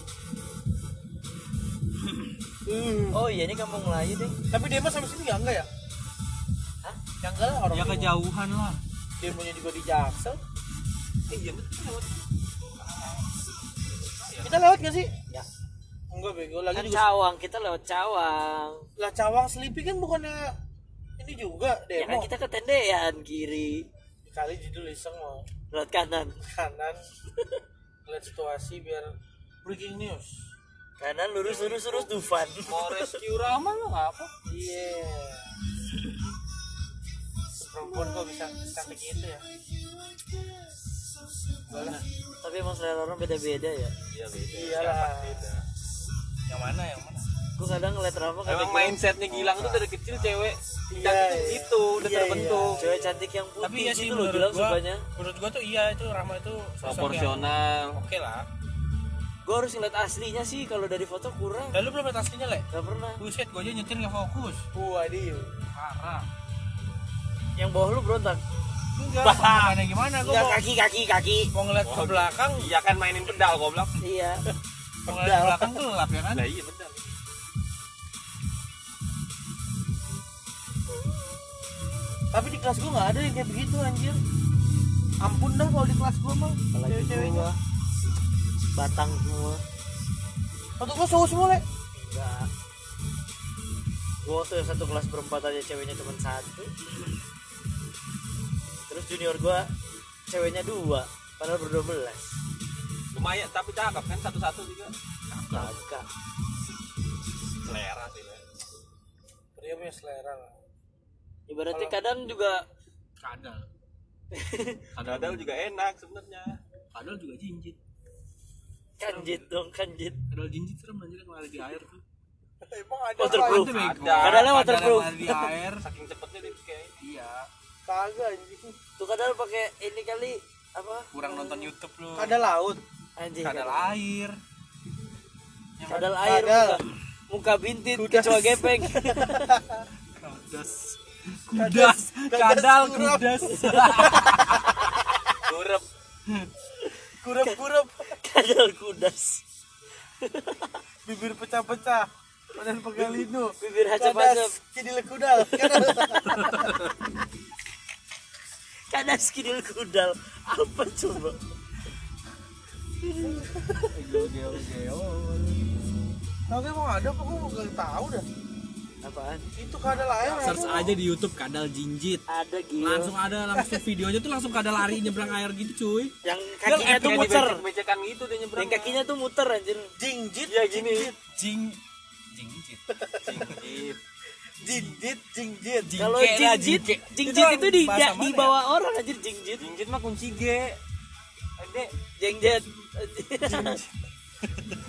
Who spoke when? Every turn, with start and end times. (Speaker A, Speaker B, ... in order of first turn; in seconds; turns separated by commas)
Speaker A: 2.6-3.2, Speaker B: 3.1-4.4, Speaker A: 4.5-5.7, Speaker A: 7.2-8.1, Speaker C: 7.7-8.8, Speaker A: 9.2-10.4, Speaker D: 11.3-12.2, Speaker D: 14.0-14.6, Speaker A: 14.4-15.1, Speaker A: 16.1-17.1, Speaker B: 16.7-18.9, Speaker A: 19.0-20.5, Speaker A: 21.2-22.3, Speaker B: 21.9-23.9, Speaker A: 24.2-25.4, Speaker B: 25.7-26.4, Speaker A: 26.4-27.0, Speaker A: 28.1-30.4, Speaker B: 31.0-33.2, Speaker D: 31.4-32.1, Speaker D: 32.6-34.3, Speaker A: 34.4-35.5, Speaker A: 37.6-39.5, Speaker A: 41.7-42.0, Speaker D: 41.7-42.0, Speaker B: 42.4-43.9, Speaker D: 44.1-45.6, Speaker A: 44.5-45.5, Speaker C: 46.5-47.2, Speaker B: 47.6-49.0, Speaker D: 48.4-52.8, Speaker C: 49.3-50.2, Speaker A: 50.9-53.2, Speaker B: 52.8-55.0, Speaker C: 53.6-58.5, Speaker D: 56.8-58.0, Speaker B: 59.4-61.8, Speaker C: 61.7-62.7, Speaker B: 62.7-63.2, Speaker C: 63.2-64.6, Speaker A: 64.7-65.5, Speaker C: 65.7-66.3, Speaker B: 67.6-68.4, Speaker C: 69.0-70.6, Speaker B: 69.2-71.5, Speaker C: 71.5-72.7, Speaker D: 71.8-74.0, Speaker B: 74.0-74.4, Speaker A: 75.0-75.8, Speaker C: 75.1-76.5, Speaker D: 76.3-77.1, Speaker A: 82.3-84.2, Speaker A: 85.2-87.5, Speaker B: 86.7-87.6, Speaker B: 88.7-89.6, Speaker A: 90.8-91.6, Speaker B: 91.9-92.5, Speaker B: 94.2-96.7, Speaker B: 98.9-99.7, Speaker B: 100.3-102.3, Speaker D: 103.1-104.9, Speaker C: 105.3-105.8, Speaker B: 105.5-106.1, Speaker D: 107.6-108.4, Speaker A: 109.5-110.5, Speaker B: 111.5-112.7, Speaker A: 111.7-112.0, Speaker C: 113.2-113.7, Speaker B: 114.3-114.9, Speaker D: 114.9-116.6, Speaker C: 115.0-115.5, Speaker C: 116.9-117.8, Speaker B: 119.0-120.2, Speaker C: 119.0-119.5, Speaker C: 120.3-122.0, Speaker A: 122.6-123.7, Speaker B: 123.2-125.5, Speaker C: 123.2-125.8, Speaker D: 123.7-124.5, Speaker D: 125.8-127.0, Speaker C: 127.0-127.5, Speaker A: 127.9-128.8, Speaker B: 129.0-131.7, Speaker C: 131.1-132.4, Speaker A: 132.2-132.8, Speaker B: 133.2-133.9, Speaker C: 133.4-134.4, Speaker C: 135.8-136.1, Speaker B: 135.9-139.5, Speaker A: 135.9-136.8, Speaker A: 137.9-139.8, Speaker C: 140.2-144.8, Speaker A: 141.5-143.5, Speaker B: 143.6-144.9, Speaker D: 145.3-145.8, Speaker A: 147.2-148.1, Speaker B: 148.1-149.4, Speaker B: 150.2-150.8, Speaker A: 151.0-156.7, Speaker B: 153.6-154.6, Speaker B: 155.4-156.8, Speaker B: 158.9-161.4, Speaker B: 163.0-164.2, Speaker C: 163.9-165.6, Speaker A: 166.5-168.2, Speaker B: 169.0-169.4, Speaker A: 169.6-170.9, Speaker D: 170.3-170.9, Speaker C: 170.4-172.2, Speaker B: 172.3-173.1, Speaker C: 172.8-177.4, Speaker B: 176.2-177.6, Speaker D: 176.8-179.0, Speaker B: 178.6-179.9, Speaker A: 180.0-181.2, Speaker D: 180.4-181.1, Speaker C: 181.3-181.8, Speaker C: 182.3-183.6, Speaker A: 182.9-183.4, Speaker D: 183.2-184.0, Speaker A: 184.6-186.0, Speaker C: 185.9-188.6, Speaker B: 186.0-189.7, Speaker D: 189.6-190.8, Speaker D: 191.6-191.9, Speaker B: 192.2-193.8, Speaker C: 193.5-193.8